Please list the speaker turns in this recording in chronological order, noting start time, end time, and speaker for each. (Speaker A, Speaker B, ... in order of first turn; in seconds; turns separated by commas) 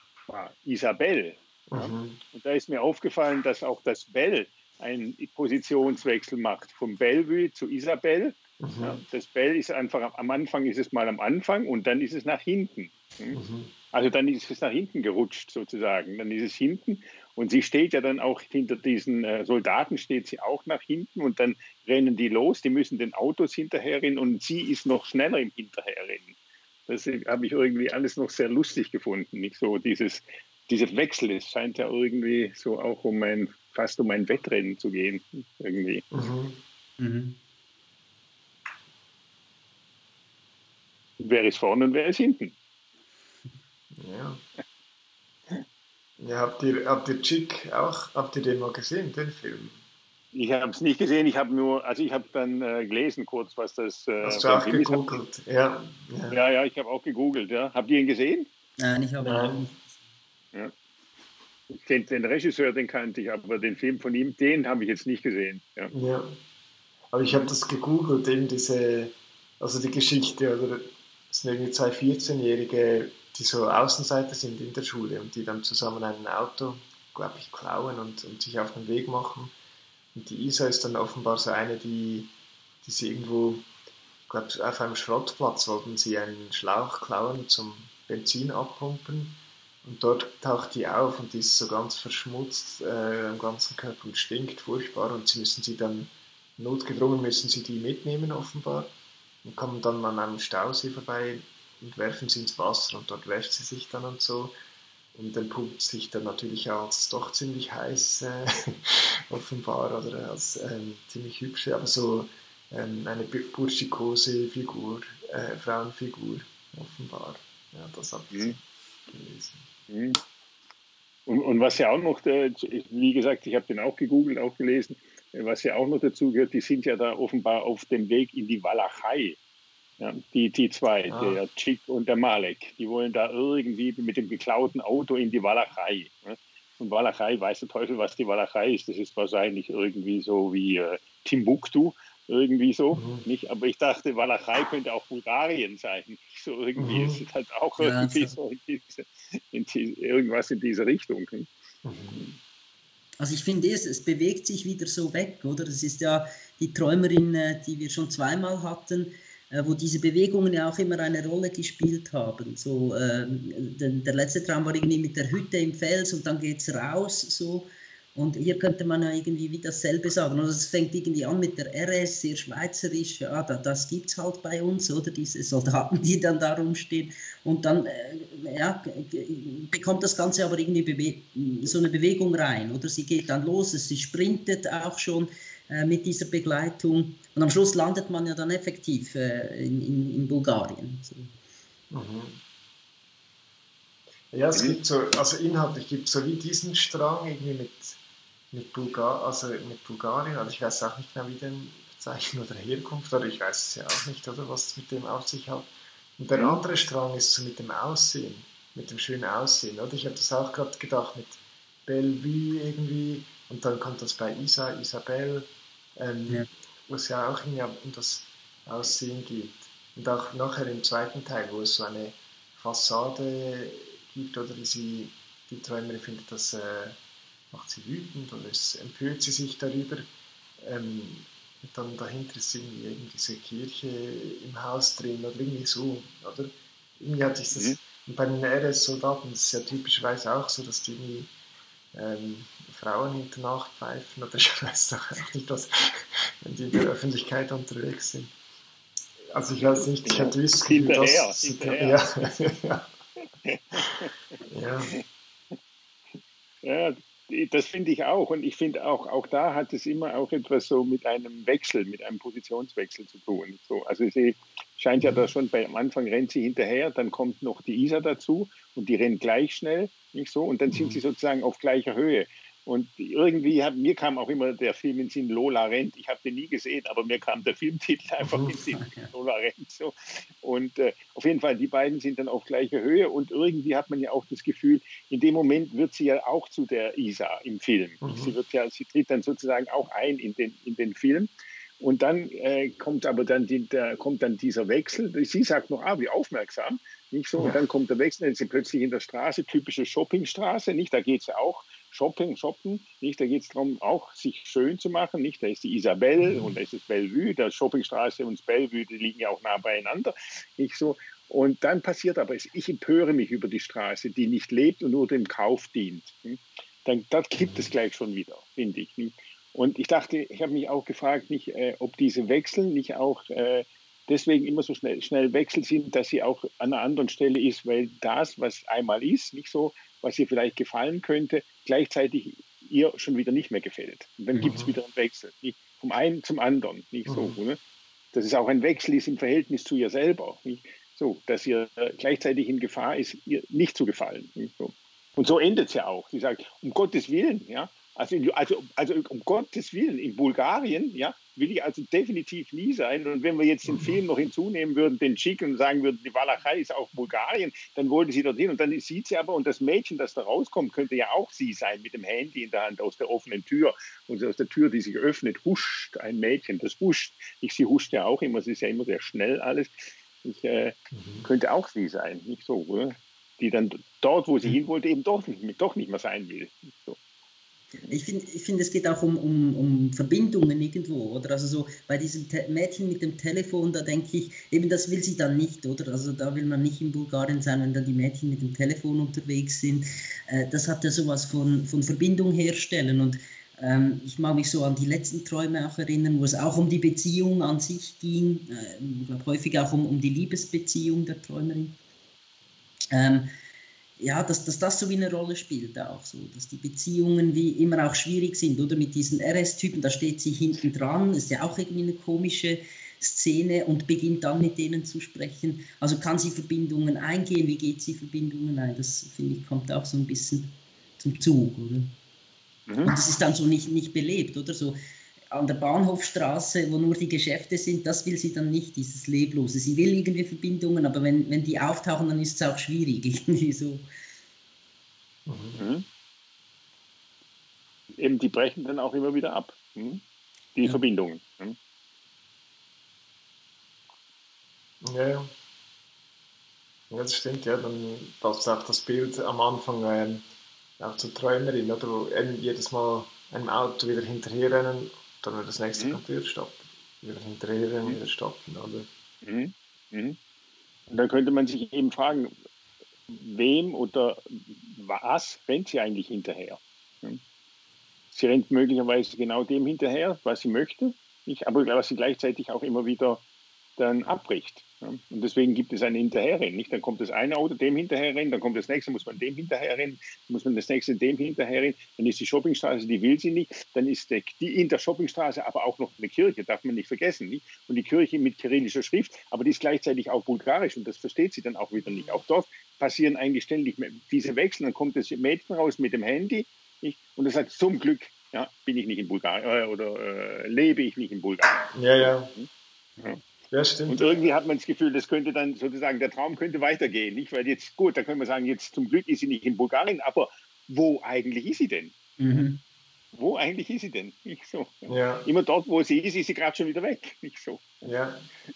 Speaker A: 0.3-13.4, Speaker B: 1.7-2.2, Speaker B: 8.6-9.0, Speaker B: 13.3-13.7, Speaker A: 13.9-26.4, Speaker A: 26.9-36.0, Speaker B: 36.1-36.6, Speaker C: 37.0-37.4, Speaker A: 41.2-42.5, Speaker B: 44.0-44.4, Speaker B: 46.2-49.8, Speaker A: 50.3-55.2, Speaker B: 54.2-56.4, Speaker A: 56.3-58.5, Speaker C: 58.8-60.0, Speaker B: 59.2-59.7, Speaker A: 61.7-65.9, Speaker B: 65.9-66.3, Speaker B: 67.1-79.5, Speaker B: 80.1-82.3, Speaker B: 82.8-83.7, Speaker B: 84.3-98.9, Speaker B: 99.4-104.5, Speaker B: 105.1-119.6, Speaker A: 119.9-120.2, Speaker A: 121.3-129.4, Speaker A: 130.0-151.5, Speaker B: 131.1-131.4, Speaker B: 142.9-143.2, Speaker B: 146.8-147.2, Speaker C: 147.8-148.3, Speaker B: 151.8-152.2, Speaker A: 152.1-152.4, Speaker C: 153.2-191.3, Speaker B: 191.9-192.4, Speaker B: 194.3-198.0, Speaker B: 198.5-227.0, Speaker A: 206.3-206.6, Speaker B: 227.5-230.0, Speaker B: 230.6-241.3, Speaker B: 241.9-248.3, Speaker B: 249.3-252.9, Speaker A: 249.7-252.0, Speaker A: 253.4-254.1, Speaker B: 254.4-254.9, Speaker A: 256.6-337.6, Speaker B: 265.0-265.3, Speaker B: 270.7-271.0, Speaker B: 278.2-278.6, Speaker C: 278.6-279.1, Speaker B: 288.0-288.3, Speaker B: 317.4-317.7, Speaker B: 334.4-334.7, Speaker B: 337.1-337.4, Speaker A: 338.1-377.0, Speaker B: 353.6-354.0, Speaker B: 370.9-371.3, Speaker C: 377.9-401.8, Speaker C: 402.9-403.3, Speaker C: 404.0-421.9, Speaker A: 422.7-422.9, Speaker C: 422.8-424.8, Speaker C: 425.3-433.9, Speaker B: 435.2-435.6, Speaker A: 435.6-435.8, Speaker A: 438.0-440.0, Speaker A: 440.6-441.6, Speaker B: 444.8-445.3, Speaker B: 446.9-450.2, Speaker B: 450.8-458.9, Speaker A: 459.2-460.2, Speaker A: 460.9-462.3, Speaker A: 463.1-467.2, Speaker A: 468.1-473.2, Speaker A: 473.8-503.2, Speaker B: 501.7-502.3, Speaker B: 503.5-504.3, Speaker A: 503.9-512.4, Speaker C: 512.2-512.6, Speaker A: 513.1-517.8, Speaker B: 514.9-515.3, Speaker B: 517.8-518.3